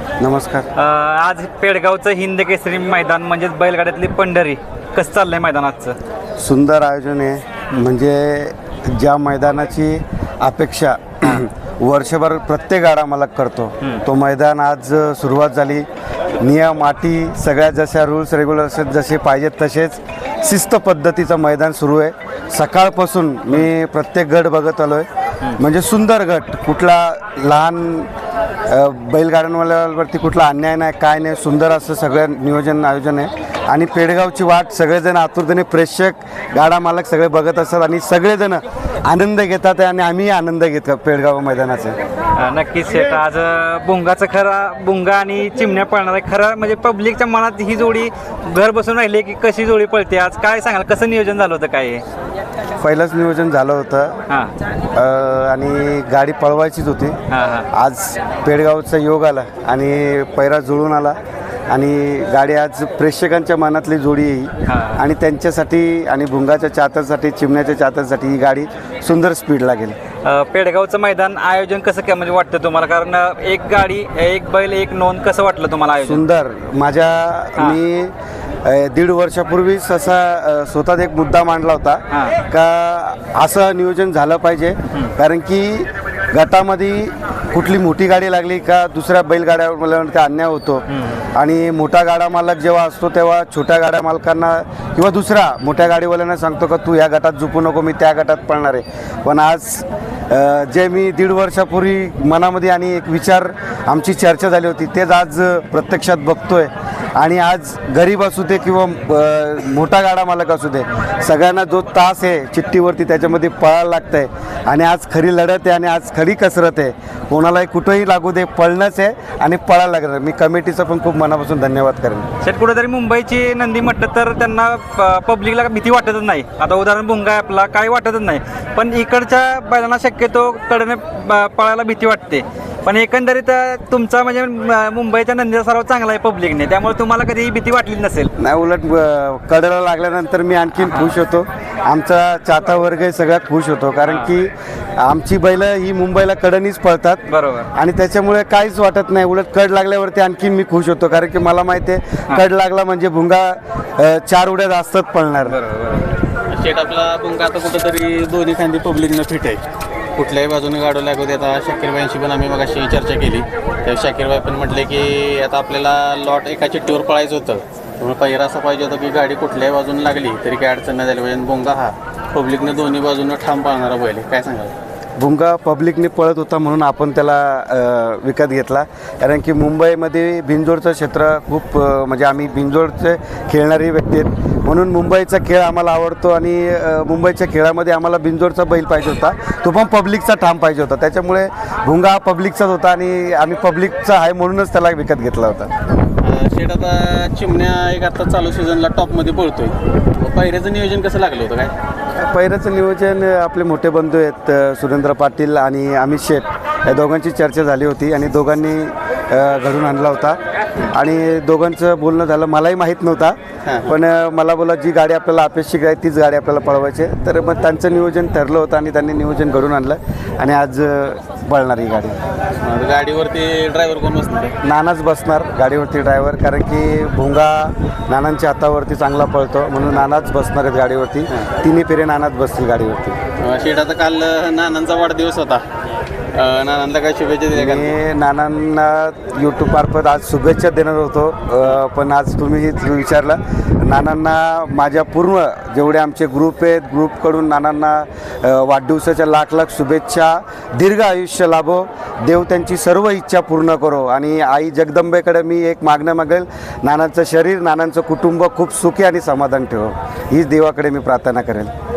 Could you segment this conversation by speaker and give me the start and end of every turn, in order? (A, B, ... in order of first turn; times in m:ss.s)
0:00.2-0:00.7 A
0:00.8-0:06.0 B
0:06.4-0:15.9 A
0:16.4-0:28.1 A
0:28.7-0:42.0 A
0:42.4-0:52.0 B
0:52.8-0:54.2 A
0:54.9-0:57.2 A
0:57.3-0:57.7 B
0:57.7-1:10.0 A
1:04.7-1:05.0 B
1:10.2-1:16.2 B
1:16.0-2:02.3 A
1:22.1-1:22.4 B
1:30.9-1:31.2 B
2:02.4-2:18.3 B
2:18.4-2:35.6 A
2:20.8-2:21.1 B
2:27.3-2:27.7 B
2:35.5-2:36.1 B
2:36.5-2:39.6 C
2:40.2-2:54.7 C
2:55.2-3:15.7 A
3:16.2-3:21.7 C
3:22.2-3:30.4 A
3:30.9-3:42.2 A
3:33.6-3:33.9 C
3:42.6-3:44.6 C
3:44.6-3:53.2 A
3:53.4-3:55.6 C
3:56.3-3:58.0 C
3:57.5-4:21.7 A